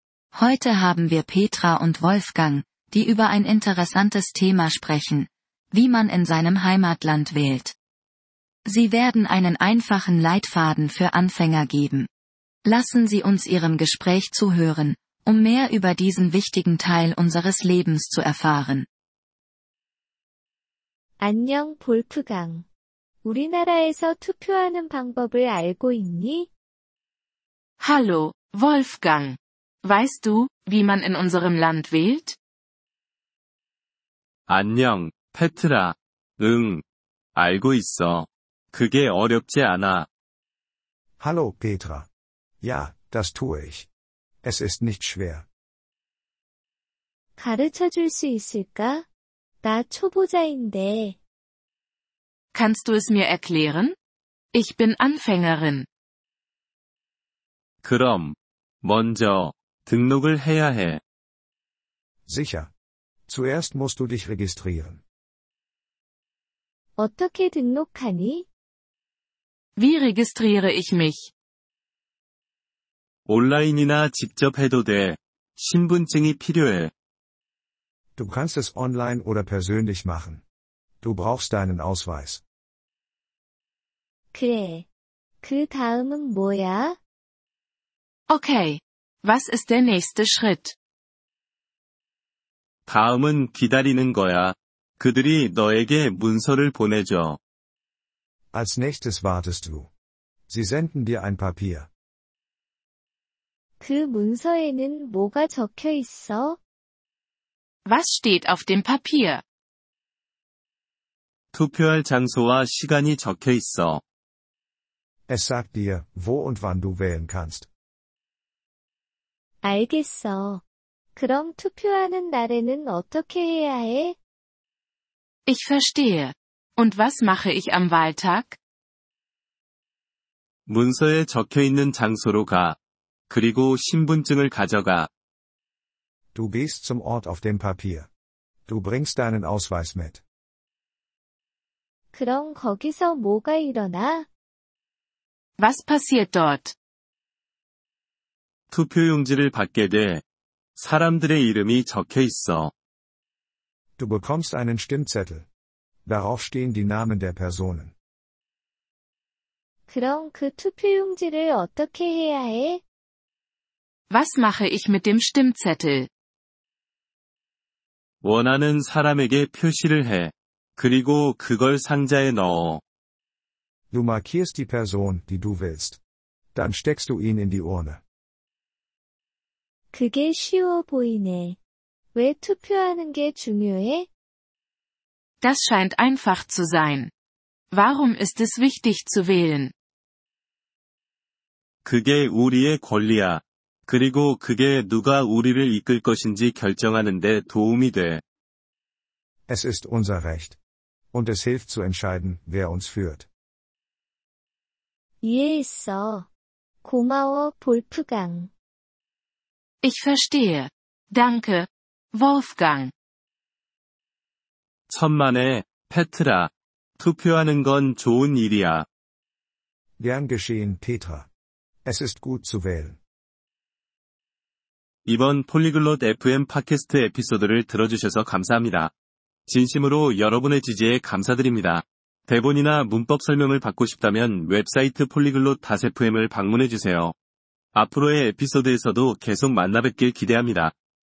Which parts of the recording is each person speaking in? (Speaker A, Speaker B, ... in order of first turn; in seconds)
Speaker A: 0.3-7.8, 8.7-12.1, 12.7-18.9
Speaker B: 21.2-22.6, 23.2-26.5, 47.4-49.1, 49.6-51.2, 67.0-68.5, 84.3-84.9, 85.4-87.0, 103.8-106.6, 119.6-120.6, 121.2-124.2, 142.1-144.3, 159.9-162.8, 179.9-181.6, 182.2-184.1, 205.2-206.3, 206.8-208.5
Speaker C: 27.8-32.4, 52.5-54.0, 54.5-55.9, 69.8-71.3, 88.3-90.8, 107.9-109.4, 125.5-128.6, 145.6-146.8, 164.1-166.1, 185.4-187.1, 187.7-189.7, 209.8-212.9
Speaker D: 34.5-36.8, 37.4-40.1, 57.8-61.0, 73.3-76.9, 92.9-97.4, 111.5-114.0, 130.7-132.8, 133.3-135.1, 148.7-150.2, 150.8-152.7, 168.2-172.8, 191.8-198.2, 214.9-218.9, 225.1-228.9, 229.5-237.1, 237.7-240.7
Speaker E: 41.2-42.1, 42.6-43.9, 44.4-45.5, 62.3-62.7, 63.3-65.0, 78.2-80.4, 81.0-82.4, 98.5-99.9, 100.5-101.9, 115.3-117.7, 136.3-138.1, 138.7-140.2, 154.0-155.5, 156.1-157.9, 173.9-176.0, 176.6-178.0, 199.5-200.6, 201.1-203.3, 220.0-221.3, 221.9-223.0